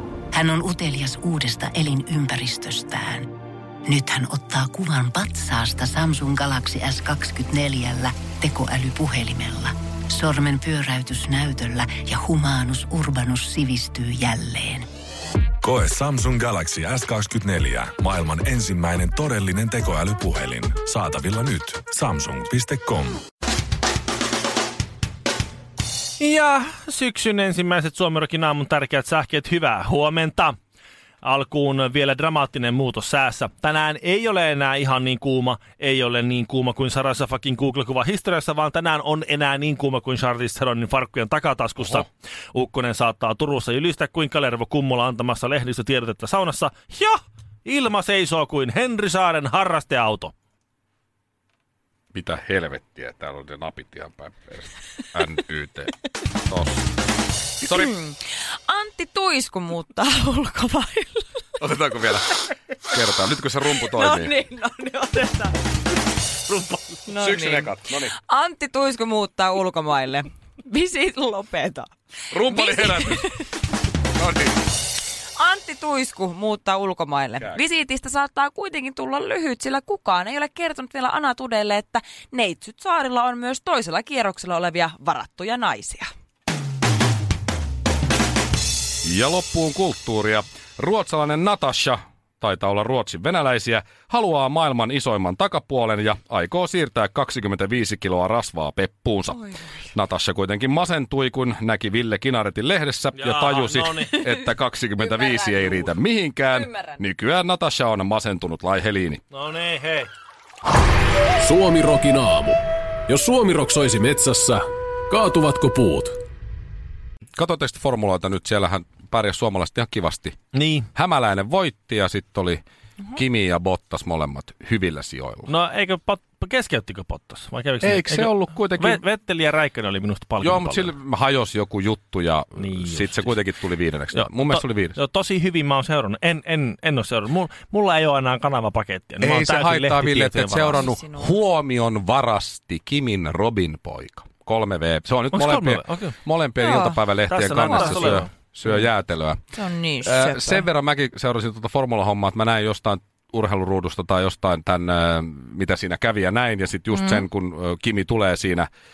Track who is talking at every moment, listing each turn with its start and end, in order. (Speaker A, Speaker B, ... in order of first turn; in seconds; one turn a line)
Speaker A: 0.3-3.3
Speaker A: 3.9-14.9
Speaker B: 15.6-23.2
Speaker C: 26.2-30.6
Speaker C: 31.2-50.3
Speaker D: 52.1-56.9
Speaker E: 57.6-61.6
Speaker D: 57.6-57.9
Speaker D: 61.6-64.3
Speaker E: 63.7-65.5
Speaker C: 66.5-67.0
Speaker E: 67.1-73.6
Speaker D: 67.2-68.2
Speaker D: 72.3-73.3
Speaker D: 74.2-74.6
Speaker E: 75.4-86.1
Speaker D: 89.0-109.2
Speaker E: 99.3-99.9
Speaker C: 103.2-104.2
Speaker E: 104.2-105.9
Speaker E: 106.5-107.0
Speaker C: 109.3-110.1
Speaker F: 111.4-116.2
Speaker D: 117.4-120.4
Speaker C: 120.5-120.9
Speaker D: 120.9-122.6
Speaker D: 123.1-125.5
Speaker C: 125.5-130.9
Speaker D: 127.8-129.0
Speaker D: 130.4-135.0
Speaker C: 132.6-133.4
Speaker C: 134.1-140.9
Speaker D: 139.2-158.7
Speaker E: 140.7-141.4
Speaker C: 145.3-146.2
Speaker E: 146.6-147.0
Speaker C: 147.2-148.9
Speaker E: 147.6-148.3
Speaker E: 149.6-150.7
Speaker E: 156.9-157.2